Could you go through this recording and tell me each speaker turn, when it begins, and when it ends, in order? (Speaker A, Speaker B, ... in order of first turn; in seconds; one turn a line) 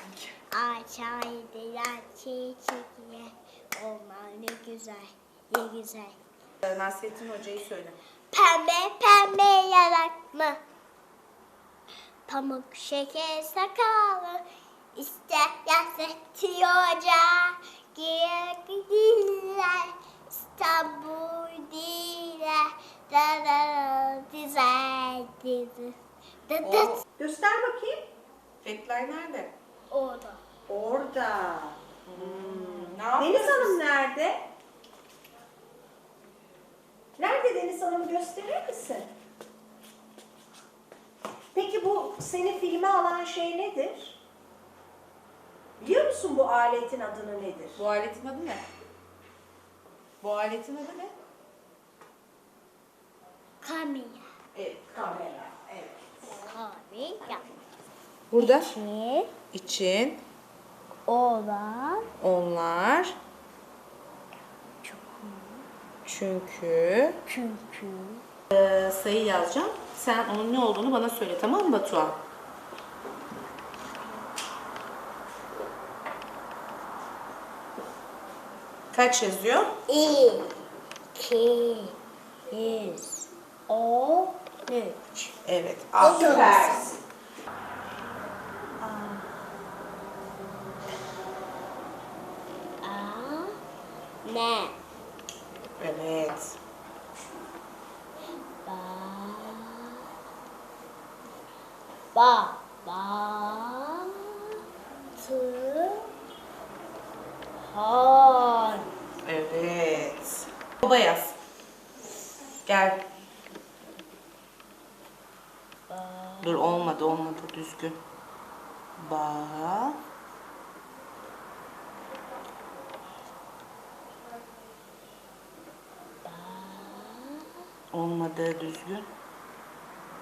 Speaker A: 0.5-6.2
Speaker B: 6.6-8.0
Speaker A: 8.3-10.6
Speaker A: 12.3-26.0
Speaker A: 26.5-27.0
Speaker B: 26.6-27.0
Speaker C: 27.2-28.1
Speaker B: 28.6-29.6
Speaker A: 29.9-30.4
Speaker C: 30.7-34.4
Speaker B: 32.1-33.9
Speaker C: 37.2-39.1
Speaker C: 41.5-44.2
Speaker C: 45.8-47.8
Speaker B: 47.8-48.7
Speaker B: 50.2-51.1
Speaker A: 53.6-54.3
Speaker C: 54.5-56.1
Speaker A: 56.3-57.5
Speaker B: 58.3-58.8
Speaker A: 58.4-59.4
Speaker B: 59.4-60.2
Speaker A: 61.1-62.1
Speaker B: 62.2-63.2
Speaker A: 64.8-65.7
Speaker B: 66.0-67.2
Speaker A: 67.3-68.2
Speaker B: 68.5-72.2
Speaker B: 78.9-79.7
Speaker A: 79.9-80.5
Speaker A: 81.2-82.0
Speaker A: 82.5-85.3
Speaker B: 85.5-86.8
Speaker A: 86.0-86.8
Speaker C: 86.0-86.9
Speaker C: 88.8-89.2
Speaker A: 92.8-93.6
Speaker A: 94.2-94.8
Speaker B: 95.8-96.6
Speaker A: 98.7-100.0
Speaker A: 102.1-104.6
Speaker A: 105.2-106.1
Speaker A: 107.7-108.9
Speaker B: 109.2-111.4
Speaker B: 112.6-113.0
Speaker A: 115.9-117.0
Speaker B: 116.4-118.0
Speaker B: 119.0-120.0
Speaker A: 126.2-127.6
Speaker B: 127.9-129.1